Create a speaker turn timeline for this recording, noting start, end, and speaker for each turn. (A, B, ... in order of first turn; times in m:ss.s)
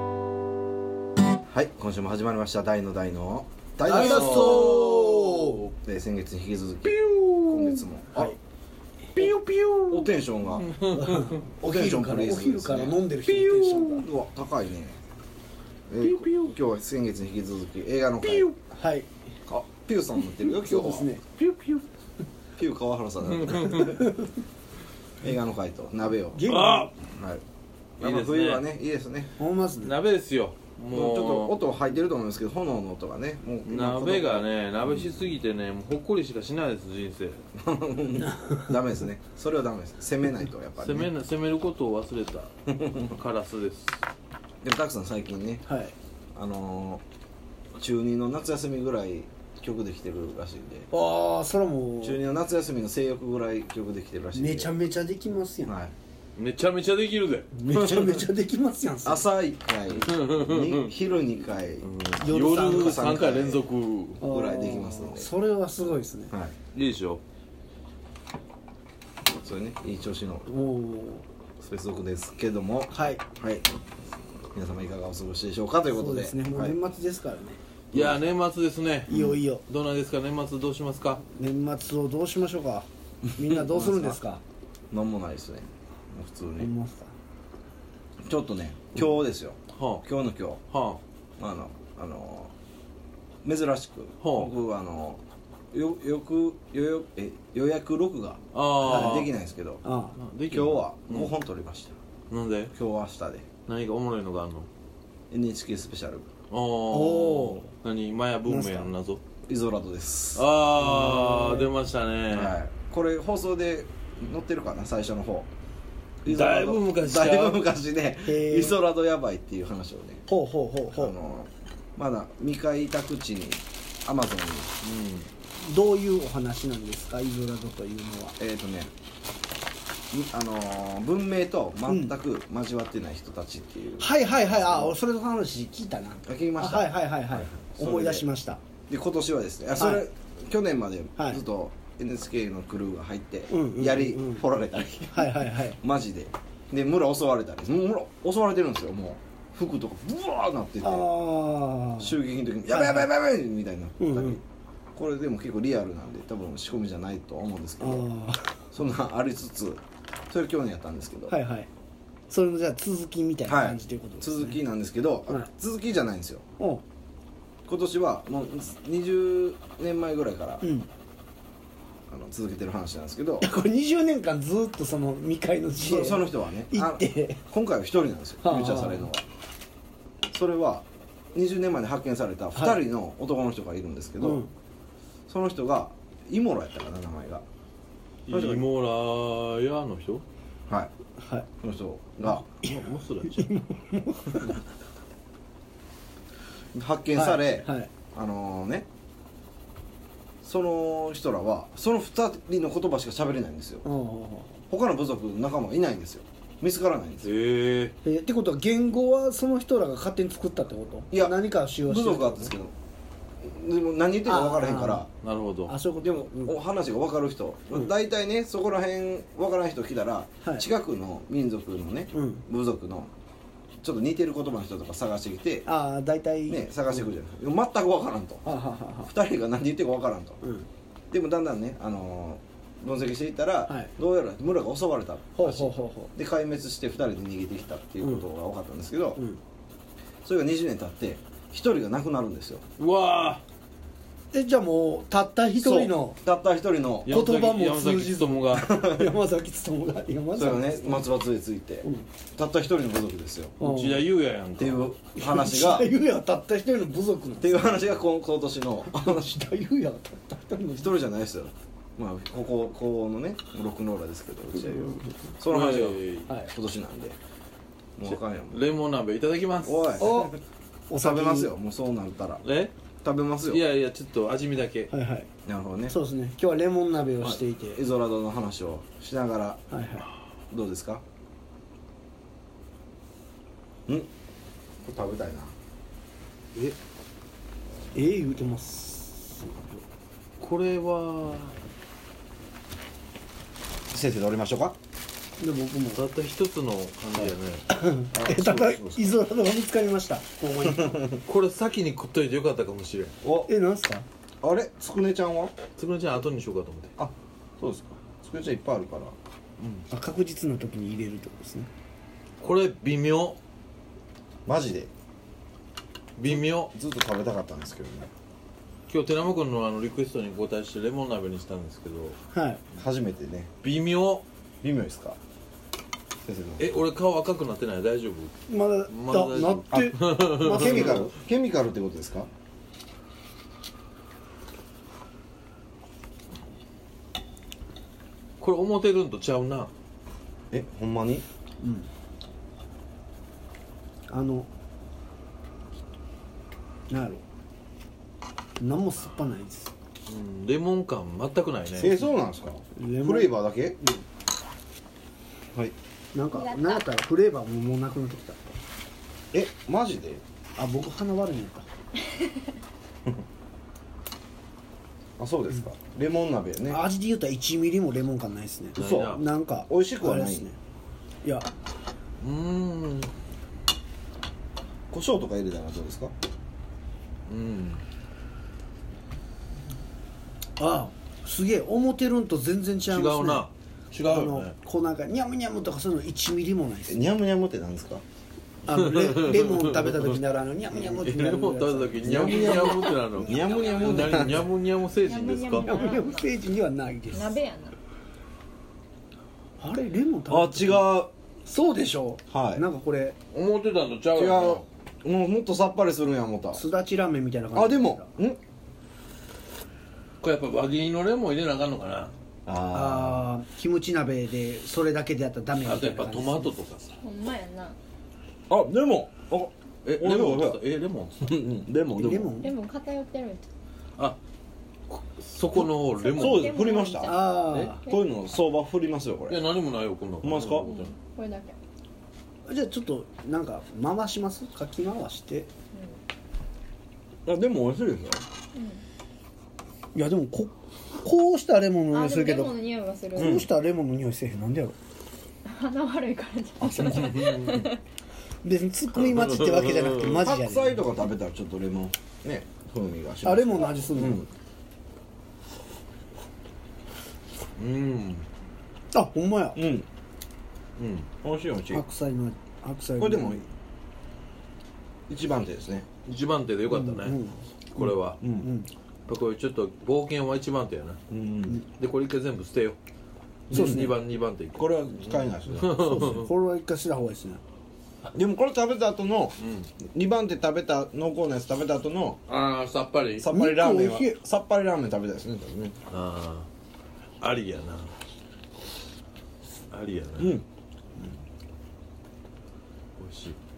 0:01.5-0:08.4 A
0:03.8-0:05.7 B
0:04.0-0:04.6 C
0:09.1-0:11.4 B
0:09.9-0:10.7 A
0:10.9-0:14.1 C
0:11.6-0:15.0 A
0:15.9-0:18.5 A
0:16.0-0:16.5 B
0:18.7-0:19.1 C
0:19.5-0:21.1 A
0:20.5-0:21.4 C
0:22.6-0:24.1 A
0:23.3-0:24.0 B
0:25.2-0:26.5 A
0:26.3-0:26.9 C
0:26.4-0:26.9 B
0:27.2-0:27.4 A
0:28.0-0:28.7 B
0:28.0-0:29.4 A
0:29.4-0:30.0 C
0:29.8-0:31.6 B
0:30.9-0:34.4 A
0:33.6-0:37.4 B
0:37.6-0:41.1 A
0:40.8-0:44.0 B
0:42.7-0:43.1 A
0:44.6-0:45.6 A
0:45.6-0:45.9 C
0:46.3-0:47.0 A
0:47.8-0:50.9 A
0:50.9-0:52.2 C
0:52.0-0:54.8 A
0:54.3-0:55.7 C
0:55.6-0:55.9 A
0:56.4-0:57.5 B
0:57.5-0:59.3 C
0:57.7-0:58.3 A
0:59.0-1:01.9 A
0:59.9-1:00.9 B
1:01.8-1:04.2 B
1:02.2-1:03.4 C
1:02.5-1:03.6 A
1:04.2-1:05.3 A
1:04.2-1:06.3 C
1:06.3-1:06.5 A
1:06.7-1:07.2 B
1:09.3-1:10.5 A
1:10.5-1:11.2 C
1:11.6-1:13.7 A
1:12.9-1:13.2 C
1:14.5-1:16.8 A
1:15.9-1:17.6 C
1:17.9-1:21.2 B
1:17.9-1:18.2 A
1:19.1-1:19.4 A
1:19.1-1:19.6 C
1:21.3-1:24.4 C
1:23.3-1:24.2 A
1:24.9-1:26.7 A
1:26.6-1:27.1 C
1:28.2-1:30.6 A
1:29.7-1:30.1 B
1:30.7-1:31.0 B
1:31.4-1:32.5 A
1:33.4-1:39.8 A
1:34.2-1:34.5 B
1:38.5-1:39.3 B
1:39.8-1:40.2 C
1:40.2-1:41.3 B
1:40.5-1:41.9 A
1:42.3-1:42.7 B
1:42.7-1:43.5 A
1:43.7-1:44.7 B
1:45.3-1:46.3 A
1:46.5-1:49.2 B
1:46.9-1:47.7 C
1:47.0-1:47.5 A
1:48.5-1:48.9 C
1:49.5-1:50.4 A
1:50.3-1:52.6 B
1:50.8-1:51.7 C
1:52.3-1:55.5 A
1:56.2-2:00.2 A
1:56.2-1:57.7 B
1:58.2-1:58.8 C
2:00.3-2:01.2 C
2:00.9-2:04.7 A
2:04.8-2:05.3 B
2:05.5-2:08.3 C
2:08.4-2:08.9 A
2:10.1-2:15.0 A
2:11.9-2:12.1 C
2:14.0-2:18.6 C
2:16.2-2:18.3 A
2:18.9-2:31.1 A
2:19.8-2:20.0 C
2:21.2-2:21.4 C
2:23.5-2:24.4 C
2:25.1-2:25.8 C
2:30.8-2:32.2 C
2:32.0-2:34.4 A
2:32.7-2:33.1 C
2:34.0-2:34.4 C
2:34.9-2:38.1 A
2:37.8-2:38.6 C
2:38.7-2:41.3 A
2:41.3-2:41.7 C
2:42.3-2:44.6 C
2:43.5-2:46.4 A
2:47.7-2:50.6 A
2:50.6-2:50.9 C
2:52.1-2:53.5 A
2:53.4-2:57.4 C
2:55.8-2:59.2 A
2:58.4-2:59.1 C
3:00.3-3:04.4 A
3:02.6-3:02.8 C
3:04.2-3:04.5 C
3:05.3-3:07.4 A
3:08.3-3:10.2 B
3:08.3-3:08.7 A
3:11.2-3:11.5 C
3:11.6-3:12.4 A
3:12.3-3:13.5 B
3:13.3-3:14.6 C
3:16.7-3:18.9 A
3:17.2-3:17.9 C
3:20.4-3:23.9 A
3:23.8-3:24.6 C
3:24.7-3:27.3 A
3:27.2-3:28.0 B
3:28.0-3:32.6 C
3:31.1-3:32.7 A
3:33.4-3:35.1 A
3:34.2-3:35.0 C
3:35.2-3:35.8 B
3:35.7-3:36.6 C
3:36.0-3:43.1 A
3:42.1-3:42.4 C
3:43.8-3:45.7 A
3:45.7-3:46.6 C
3:46.5-3:48.5 A
3:48.4-3:49.1 C
3:49.0-3:50.4 A
3:51.1-3:59.2 A
3:55.4-3:56.1 C
4:00.2-4:02.6 A
4:02.8-4:03.4 B
4:04.3-4:06.2 C
4:05.5-4:07.1 A
4:07.0-4:08.7 B
4:07.1-4:11.1 C
4:08.6-4:09.2 A
4:10.4-4:13.6 A
4:13.6-4:14.1 C
4:13.6-4:14.9 B
4:14.6-4:15.9 A
4:15.2-4:17.9 C
4:17.4-4:19.3 A
4:18.9-4:20.9 C
4:20.8-4:27.2 A
4:24.6-4:25.2 C
4:25.5-4:26.3 B
4:28.0-4:28.6 A
4:28.1-4:30.1 B
4:29.6-4:30.4 A
4:30.0-4:30.3 C
4:30.9-4:31.5 C
4:30.9-4:32.4 A
4:32.4-4:32.7 B
4:33.0-4:33.6 A
4:33.5-4:34.9 B
4:34.9-4:35.3 C
4:35.4-4:36.0 A
4:35.9-4:37.8 C
4:37.2-4:39.6 A
4:39.7-4:40.1 C
4:40.5-4:41.0 A
4:44.8-4:45.6 A
4:47.9-4:49.8 C
4:50.4-4:51.6 B
4:53.9-4:54.8 A
4:55.4-4:56.0 C
4:55.9-4:57.7 B
4:57.7-5:01.0 C
4:58.1-4:59.1 A
5:00.7-5:01.1 A
5:01.2-5:03.2 B
5:03.2-5:03.5 A
5:03.5-5:04.0 C
5:04.4-5:05.5 A
5:05.8-5:06.9 B
5:07.0-5:09.2 A
5:09.6-5:09.9 B
5:09.9-5:11.7 C
5:12.4-5:13.4 B
5:14.4-5:14.9 A
5:16.2-5:16.7 B
5:16.3-5:18.1 A
5:18.9-5:22.2 B
5:22.3-5:22.6 C
5:22.8-5:23.5 A
5:23.6-5:24.2 B
5:24.6-5:25.2 A
5:26.2-5:26.8 A
5:26.6-5:28.4 B
5:28.5-5:31.1 C
5:28.9-5:31.1 B
5:29.7-5:32.3 A
5:38.4-5:39.7 B
5:40.5-5:41.2 A
5:41.6-5:41.9 C
5:44.1-5:44.5 C
5:46.9-5:47.2 C
5:48.6-5:49.7 C
5:50.1-5:52.0 B
5:51.7-5:53.8 A
5:52.8-5:54.0 C
5:56.1-5:58.4 C
5:56.3-5:56.8 D
5:59.3-6:00.2 A
6:00.6-6:01.7 C
6:05.2-6:06.8 A
6:06.7-6:10.6 C
6:08.8-6:09.2 B
6:08.8-6:10.5 A
6:11.2-6:11.5 C
6:12.2-6:13.1 B
6:14.9-6:16.1 A
6:17.3-6:17.8 B
6:20.6-6:23.5 C
6:22.9-6:24.5 B
6:24.0-6:27.0 C
6:26.9-6:28.0 A
6:28.7-6:33.0 C
6:28.7-6:30.2 B
6:30.7-6:35.7 B
6:32.0-6:34.5 A
6:33.3-6:34.1 D
6:35.0-6:36.3 D
6:35.4-6:37.4 C
6:37.1-6:37.8 D
6:39.6-6:43.2 C
6:40.3-6:41.1 A
6:42.3-6:42.6 A
6:43.3-6:44.6 B
6:44.1-6:46.6 A
6:46.5-6:48.1 C
6:47.5-6:48.4 A
6:50.2-6:52.1 B
6:52.4-6:53.3 A
6:52.7-6:56.6 C
6:55.6-6:57.0 B
6:57.0-6:57.8 D
6:58.5-7:00.6 A
6:59.8-7:01.4 B
7:01.2-7:02.4 A
7:01.9-7:02.5 C
7:02.4-7:03.5 D
7:04.9-7:06.6 B
7:05.9-7:08.0 D
7:06.1-7:09.4 A
7:07.0-7:07.8 C
7:07.4-7:07.7 B
7:09.3-7:11.0 B
7:10.2-7:10.7 A
7:10.6-7:11.6 D
7:12.5-7:15.5 C
7:15.7-7:16.0 D
7:17.2-7:18.2 A
7:18.5-7:18.8 D
7:19.9-7:22.6 C
7:21.9-7:23.4 D
7:23.1-7:24.8 C
7:23.2-7:23.5 B
7:25.4-7:27.8 D
7:26.6-7:27.4 C
7:27.2-7:27.6 B
7:28.4-7:30.8 C
7:29.0-7:30.2 B
7:30.0-7:34.3 A
7:33.2-7:34.2 C
7:37.6-7:38.2 B
7:38.9-7:39.6 C
7:39.6-7:39.9 A
7:40.8-7:41.1 B
7:41.2-7:41.8 A
7:41.7-7:43.4 C
7:43.0-7:43.4 A
7:45.1-7:45.9 A
7:46.1-7:47.2 B
7:46.7-7:47.4 C
7:47.8-7:48.2 B
7:48.2-7:48.5 A
7:48.4-7:48.7 C
7:49.1-7:51.0 B
7:51.1-7:51.6 A
7:51.8-7:52.8 B
7:53.5-7:54.0 A
7:53.5-7:56.3 B
7:53.5-7:53.9 C
7:54.6-7:56.2 A
7:55.9-7:57.4 C
7:58.1-7:59.4 A
7:59.4-7:59.7 B
7:59.9-8:02.2 A
8:02.3-8:03.3 B
8:03.2-8:05.8 A
8:03.3-8:04.2 C
8:05.9-8:06.5 B
8:07.2-8:07.9 B
8:09.7-8:10.4 B
8:10.2-8:10.4 A
8:13.0-8:13.4 B